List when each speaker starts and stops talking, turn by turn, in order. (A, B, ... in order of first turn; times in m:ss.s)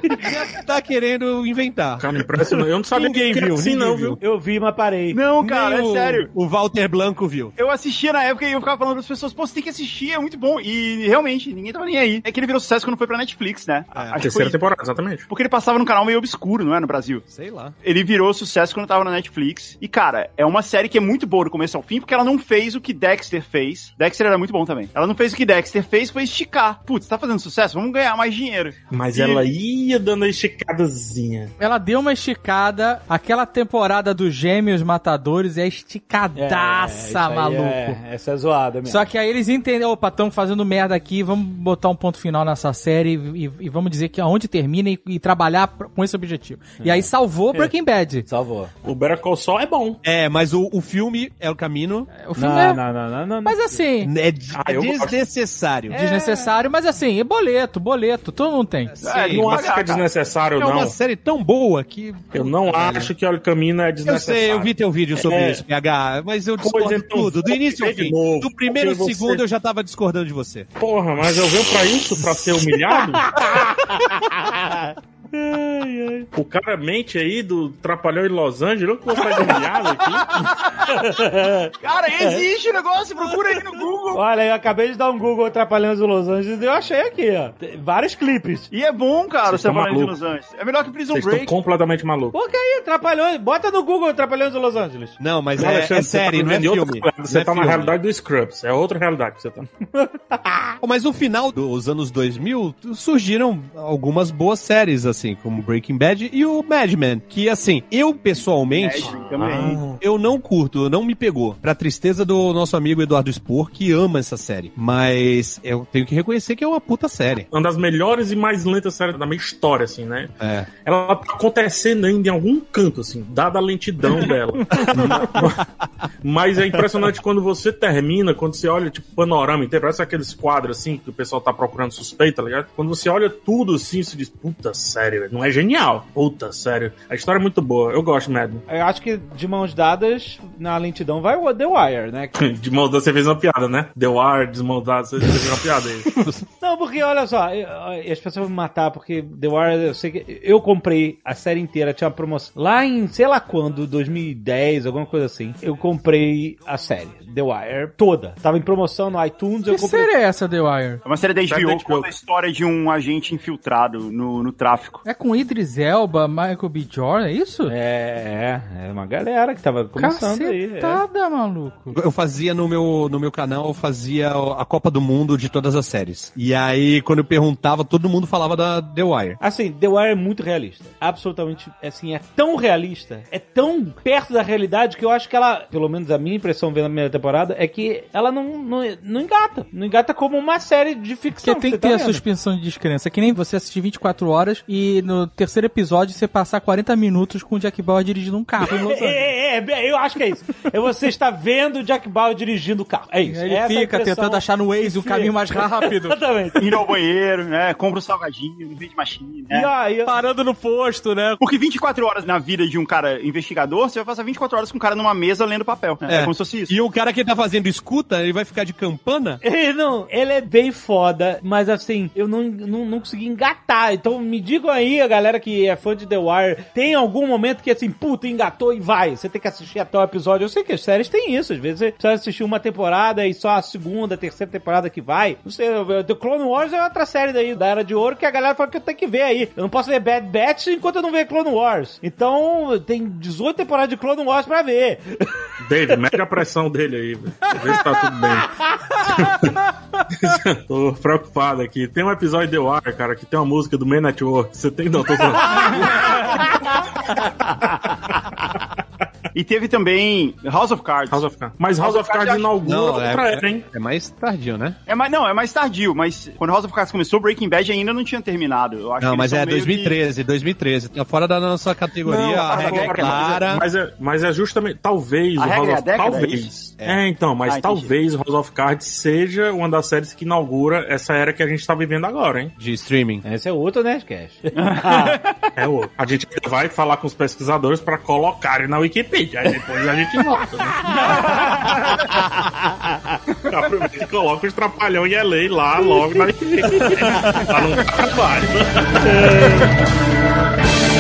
0:00.2-0:02.0 A
0:02.0-0:04.2 B
0:03.0-0:04.2 A
0:04.2-0:05.3 C
0:05.1-0:06.3 D
0:05.4-0:07.5 A
0:07.6-0:14.6 D
0:13.9-0:14.2 A
0:14.2-0:15.2 B
0:15.3-0:17.2 D
0:17.3-0:17.8 A
0:17.8-0:29.5 D
0:28.9-0:31.5 B
0:31.6-0:38.0 E
0:36.4-0:39.1 C
0:38.9-0:48.3 E
0:46.8-0:47.7 C
0:48.3-0:48.7 C
0:48.8-0:50.0 B
0:50.0-0:52.1 A
0:52.1-0:52.8 E
0:52.4-0:53.6 C
0:53.4-0:54.1 E
0:54.0-0:56.0 A
0:54.5-0:55.2 B
0:55.9-0:56.6 C
0:55.9-0:59.0 E
0:59.0-0:59.7 A
0:59.0-1:00.0 D
0:59.2-1:01.0 B
1:00.6-1:03.1 A
1:02.3-1:05.6 B
1:04.0-1:10.7 A
1:06.6-1:09.4 B
1:10.8-1:13.4 B
1:13.4-1:16.3 C
1:16.3-1:20.6 B
1:20.9-1:22.4 C
1:21.8-1:24.2 D
1:24.1-1:28.7 C
1:28.7-1:31.5 D
1:29.5-1:30.2 B
1:31.1-1:32.4 B
1:32.3-1:35.2 C
1:35.2-1:37.9 A
1:35.6-1:39.7 B
1:39.9-1:40.8 C
1:40.8-1:49.2 A
1:48.7-1:49.9 D
1:49.0-1:50.0 B
1:49.9-1:57.5 A
1:57.5-2:05.6 B
2:00.4-2:00.7 A
2:04.7-2:05.6 A
2:06.2-2:18.6 B
2:18.7-2:22.4 C
2:22.4-2:26.3 B
2:26.6-2:40.1 C
2:39.7-2:41.0 E
2:41.0-2:45.0 D
2:41.5-2:42.1 B
2:45.0-2:47.7 E
2:47.7-2:51.0 C
2:50.0-2:52.0 E
2:51.9-2:59.4 A
2:59.4-3:12.2 C
3:11.4-3:19.3 E
3:18.6-3:26.9 C
3:23.3-3:26.2 E
3:26.6-3:29.7 D
3:29.5-3:30.1 C
3:30.0-3:31.4 E
3:31.4-3:36.7 D
3:36.0-3:39.4 A
3:39.4-4:05.4 C
4:05.6-4:16.8 B
4:19.4-4:21.2 D
4:21.1-4:23.7 B
4:21.8-4:22.6 D
4:22.6-4:24.8 A
4:24.9-4:30.0 D
4:29.0-4:33.6 A
4:32.1-4:42.5 B
4:32.1-4:33.5 D
4:35.4-4:36.5 D
4:37.4-4:37.9 D
4:42.6-4:43.2 A
4:43.2-4:45.2 C
4:44.6-4:45.2 D
4:45.6-4:50.9 B
4:50.9-4:52.0 C
4:53.4-4:59.5 B
4:56.0-4:57.5 C
4:59.1-4:59.7 C